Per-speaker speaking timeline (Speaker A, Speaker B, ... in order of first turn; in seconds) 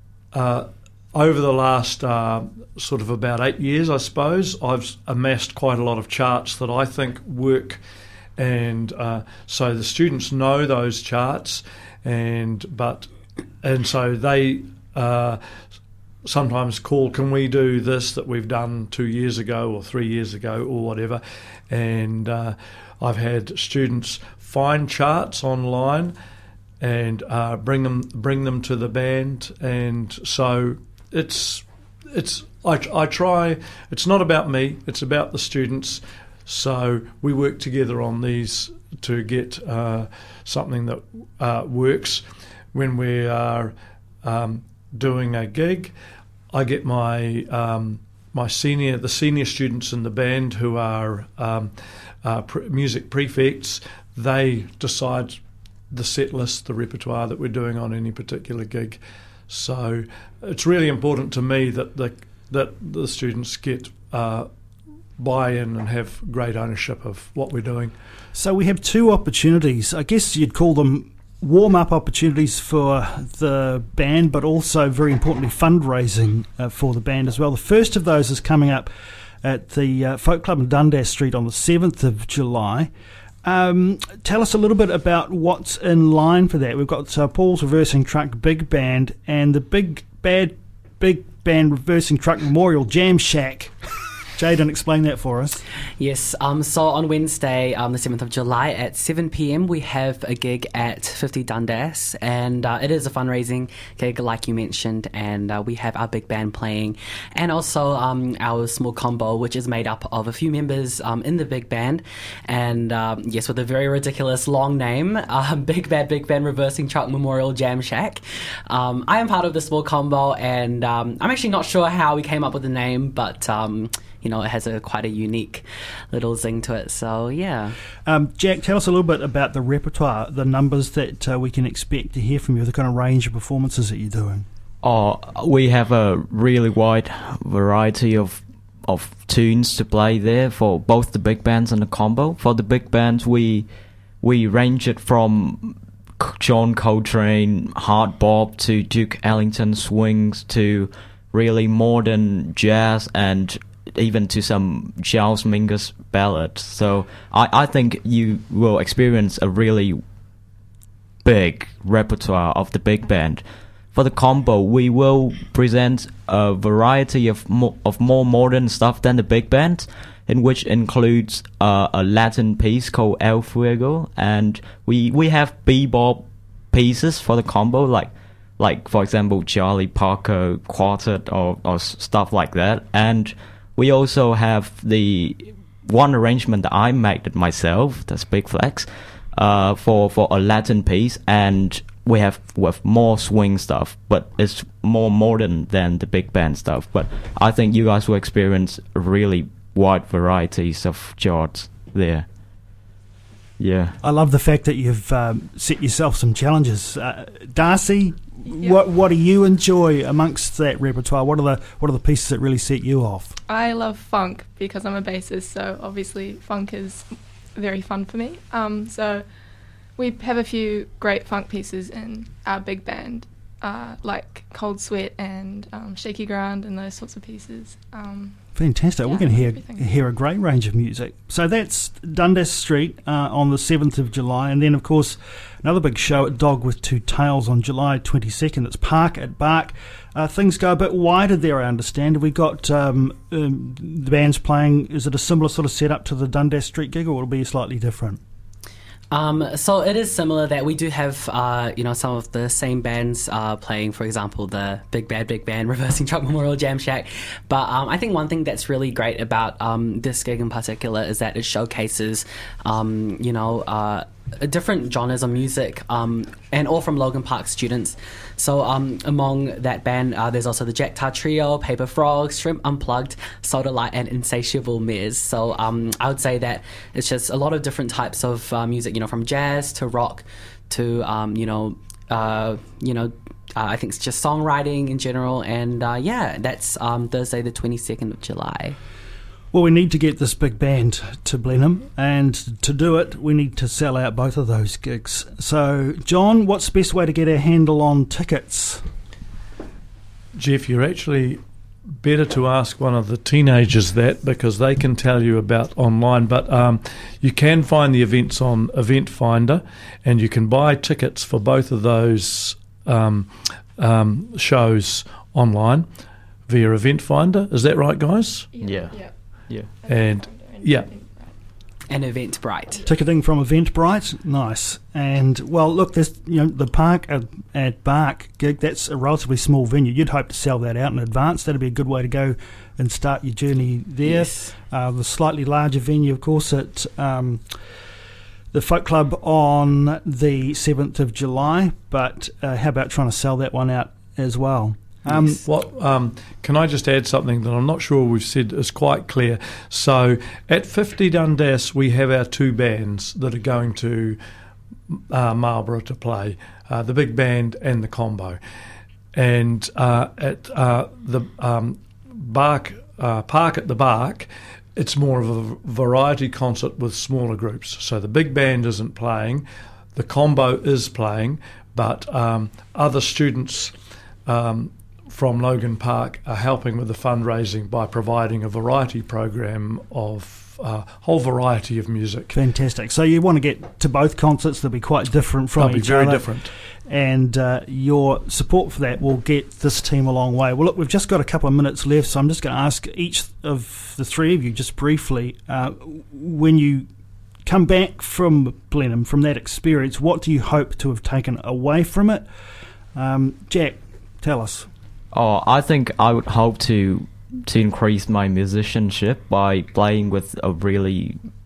Speaker A: 0.3-7.8, 8.4-13.1, 13.6-15.4, 16.2-26.1, 26.8-45.9, 46.5-55.4, 55.9-64.5, 65.2-68.0, 300.4-301.4, 302.0-315.9, 316.5-318.5, 319.9-320.9, 345.4-354.2, 354.9-358.4, 359.1-373.8, 374.3-382.3, 385.5-386.5
Speaker B: 68.3-78.9, 79.4-82.9, 83.4-93.7, 94.4-95.6, 128.1-134.4, 204.0-213.3, 228.6-248.2, 289.5-298.8, 322.9-337.4, 338.5-345.4, 382.3-386.3, 386.9-396.9, 397.5-402.2, 402.9-404.7
Speaker C: 96.0-127.8, 249.1-288.8, 321.9-322.9, 334.0-334.5
Speaker D: 134.8-143.7, 144.2-160.0, 161.2-202.3, 203.6-203.9, 318.6-319.7, 405.1-411.2
Speaker E: 208.5-208.8, 213.5-219.2, 220.0-228.4, 229.0-229.8, 318.5-321.3